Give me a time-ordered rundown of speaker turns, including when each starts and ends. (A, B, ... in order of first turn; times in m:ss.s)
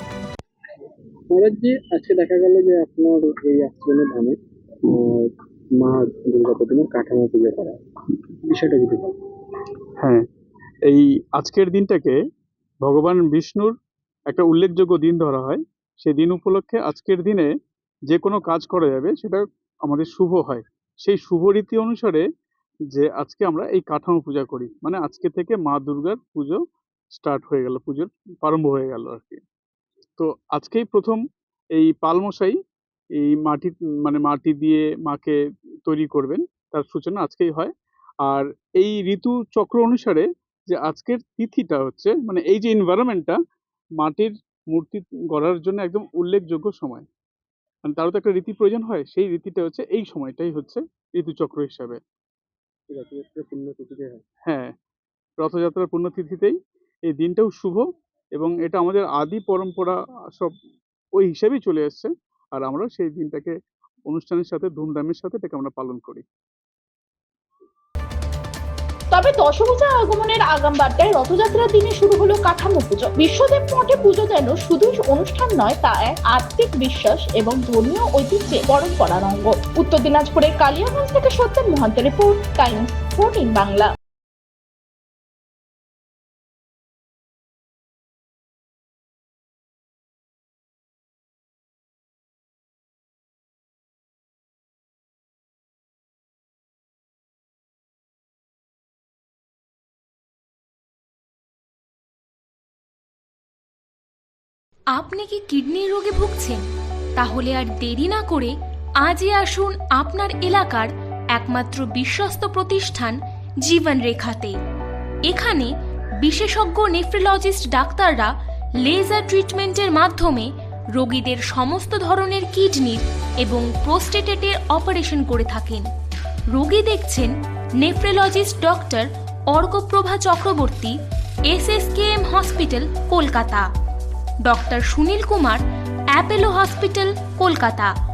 0:01.3-0:07.8 A
0:08.5-0:09.2 A
0:10.9-0:12.2 B
0:12.8-0:13.7 B
0:14.3-0:17.5 B
0:18.1-0:22.2 B
0:22.9-0:26.6 B
0:27.1-0:29.4 B
0:30.2-0:31.2 B
0:31.8-0:32.6 B
0:33.2-0:37.7 B
0:38.2-0:43.4 B
0:44.0-0:47.0 B
0:47.8-0:52.0 B
0:52.9-0:54.2 A
0:54.5-0:54.7 B
0:55.4-0:56.6 B
0:57.1-0:57.8 B
0:58.4-1:00.5 B
1:01.2-1:03.5 B
1:04.1-1:06.2 B
1:09.1-1:23.9 C
1:44.9-1:54.6 D
1:55.3-2:05.9 D
2:06.5-2:11.0 D
2:11.5-2:13.7 D
2:14.4-2:17.9 D